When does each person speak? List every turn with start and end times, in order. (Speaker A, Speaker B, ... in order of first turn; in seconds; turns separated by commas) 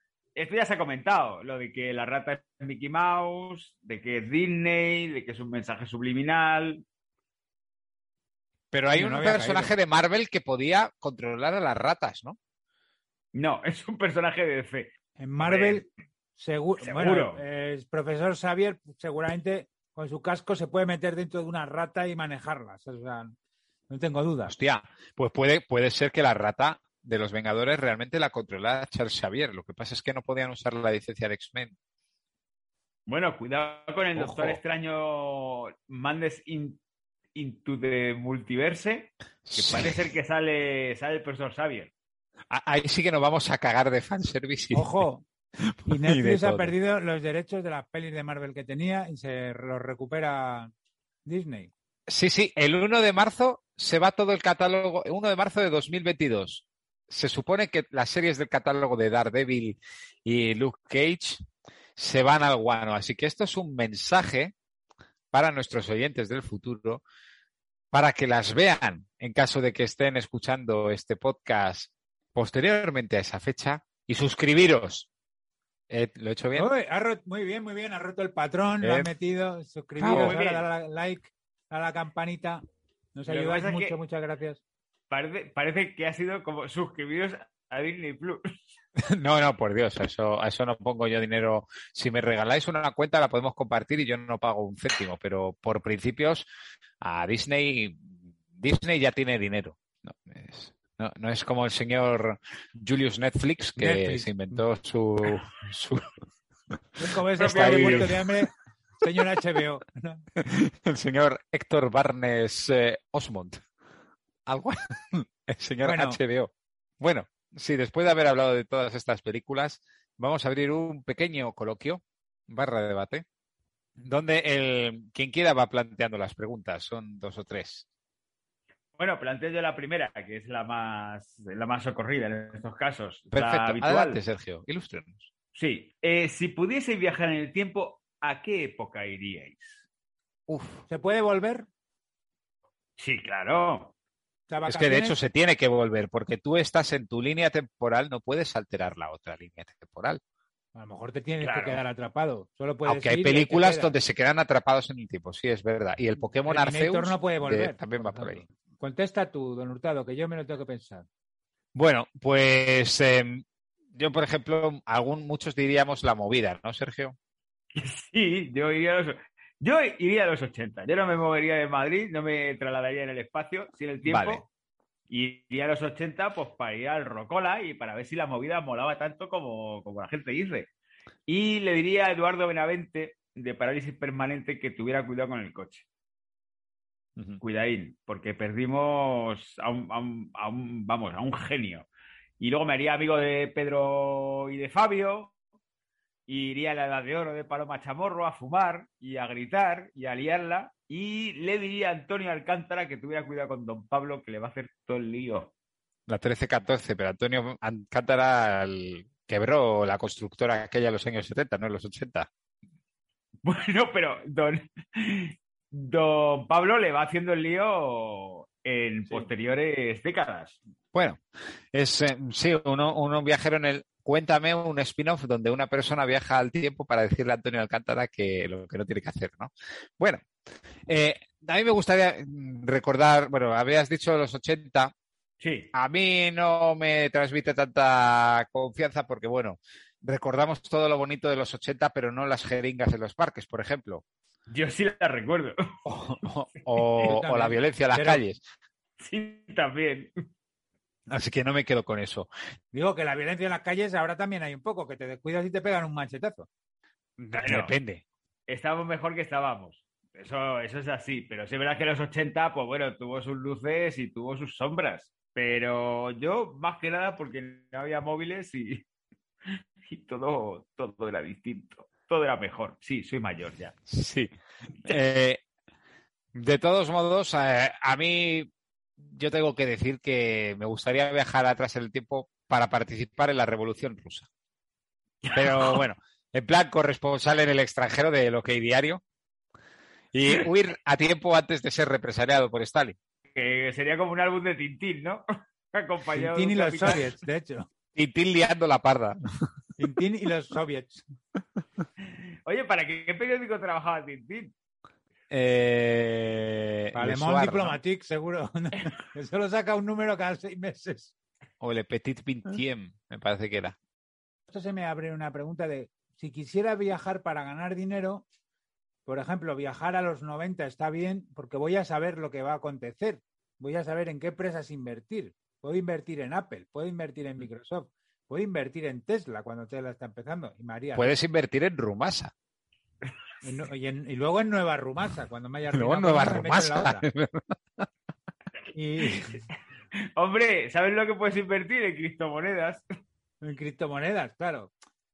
Speaker A: 0.4-6.8, Speaker B: 8.7-12.4, Speaker C: 8.9-9.7, Speaker A: 13.3-15.9, Speaker C: 15.2-15.8, Speaker C: 16.4-23.4, Speaker A: 16.8-17.4, Speaker C: 23.9-24.5, Speaker B: 24.5-31.7, Speaker A: 33.1-36.8, Speaker B: 34.2-34.6, Speaker A: 37.4-41.9, Speaker B: 39.5-40.0, Speaker B: 42.5-45.0, Speaker C: 44.7-45.2, Speaker B: 45.7-46.7, Speaker C: 45.9-50.7, Speaker C: 51.3-51.7, Speaker B: 52.1-61.5, Speaker B: 62.0-64.5, Speaker B: 65.3-67.0, Speaker B: 67.9-75.1, Speaker B: 75.9-76.7, Speaker C: 76.5-82.6, Speaker B: 78.8-79.1, Speaker B: 80.0-80.3, Speaker A: 80.0-80.7, Speaker C: 83.1-84.6, Speaker A: 83.3-84.0, Speaker A: 85.1-88.5, Speaker B: 89.0-96.5, Speaker B: 97.0-106.1, Speaker C: 103.7-104.6, Speaker C: 107.0-110.2, Speaker A: 107.4-108.2, Speaker B: 107.5-108.2, Speaker B: 110.4-113.6, Speaker B: 114.5-115.0, Speaker B: 115.5-123.2, Speaker C: 115.8-116.2, Speaker B: 124.0-127.8, Speaker A: 129.0-134.2, Speaker B: 133.3-135.3, Speaker A: 135.6-139.8, Speaker B: 140.5-140.8, Speaker C: 140.9-141.7, Speaker A: 143.0-143.9, Speaker C: 144.5-145.2, Speaker B: 144.7-150.2, Speaker C: 150.7-153.9, Speaker A: 151.4-151.8, Speaker B: 152.8-158.4, Speaker C: 156.4-161.1, Speaker B: 161.7-167.2, Speaker A: 167.7-174.4, Speaker B: 174.1-174.4, Speaker A: 175.1-180.7, Speaker A: 181.3-185.9, Speaker A: 187.4-191.9, Speaker A: 192.4-195.3, Speaker A: 196.3-205.5, Speaker B: 206.1-212.3, Speaker A: 213.4-220.6, Speaker B: 220.9-221.2, Speaker B: 221.7-230.2, Speaker B: 230.9-234.9, Speaker A: 235.4-235.7, Speaker B: 235.7-244.0, Speaker A: 244.5-245.7, Speaker B: 245.9-248.4, Speaker C: 247.1-248.2, Speaker A: 249.0-250.1, Speaker B: 251.1-252.3, Speaker C: 252.7-256.5, Speaker A: 257.2-257.7, Speaker B: 257.3-258.0, Speaker A: 258.5-268.8, Speaker A: 269.9-273.7, Speaker B: 273.9-274.3, Speaker B: 274.8-275.4, Speaker B: 276.3-284.3, Speaker A: 285.2-285.8, Speaker B: 285.3-289.0, Speaker B: 290.1-292.9, Speaker A: 293.4-297.1, Speaker C: 296.1-297.7, Speaker B: 297.9-299.2, Speaker C: 299.8-301.1, Speaker A: 302.4-304.5, Speaker B: 305.3-307.8, Speaker C: 306.9-311.1, Speaker B: 311.6-313.8, Speaker C: 314.5-318.2, Speaker C: 319.1-331.1, Speaker B: 330.9-332.3, Speaker C: 333.4-337.1, Speaker B: 335.7-337.9, Speaker C: 338.7-339.4, Speaker A: 340.2-342.8, Speaker C: 343.4-344.7